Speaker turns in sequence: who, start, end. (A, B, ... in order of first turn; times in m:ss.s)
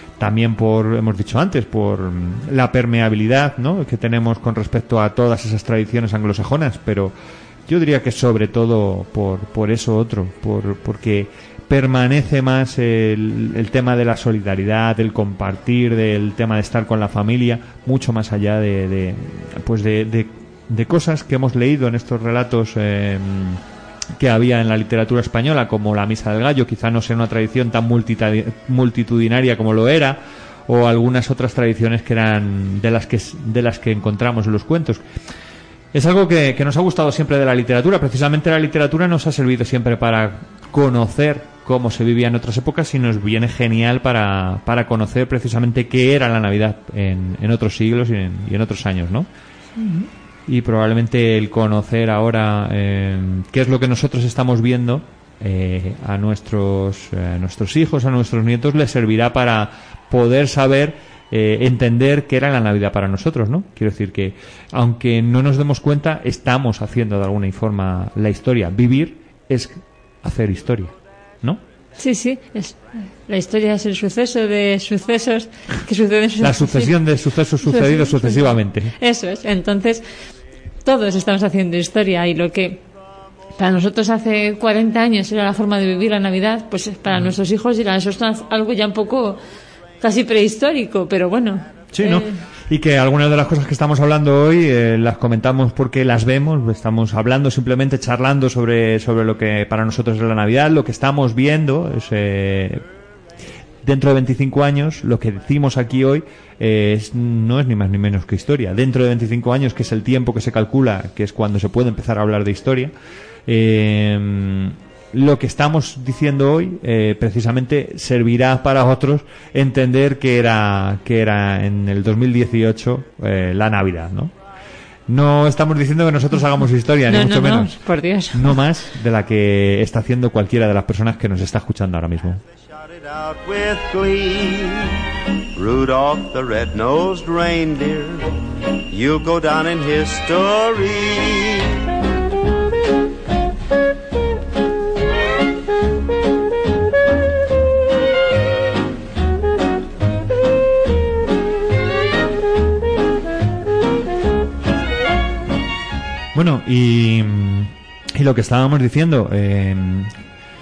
0:00.2-0:07.1 A
0:07.7-0:23.6 A
0:24.2-0:35.0 A
0:35.9-0:49.3 A
0:50.5-1:11.6 A
1:12.0-1:16.9 B
1:16.4-1:18.9 A
1:17.6-1:20.0 B
1:20.8-1:22.8 B
1:23.6-1:29.4 B
1:30.0-1:32.4 B
1:31.9-1:42.8 A
1:43.8-1:52.9 A
1:53.4-2:04.3 A
2:05.1-2:07.8 A
2:07.1-2:08.5 B
2:08.3-2:12.4 A
2:13.4-2:14.8 C
2:15.6-2:18.1 C
2:18.9-2:19.5 C
2:36.3-2:40.1 A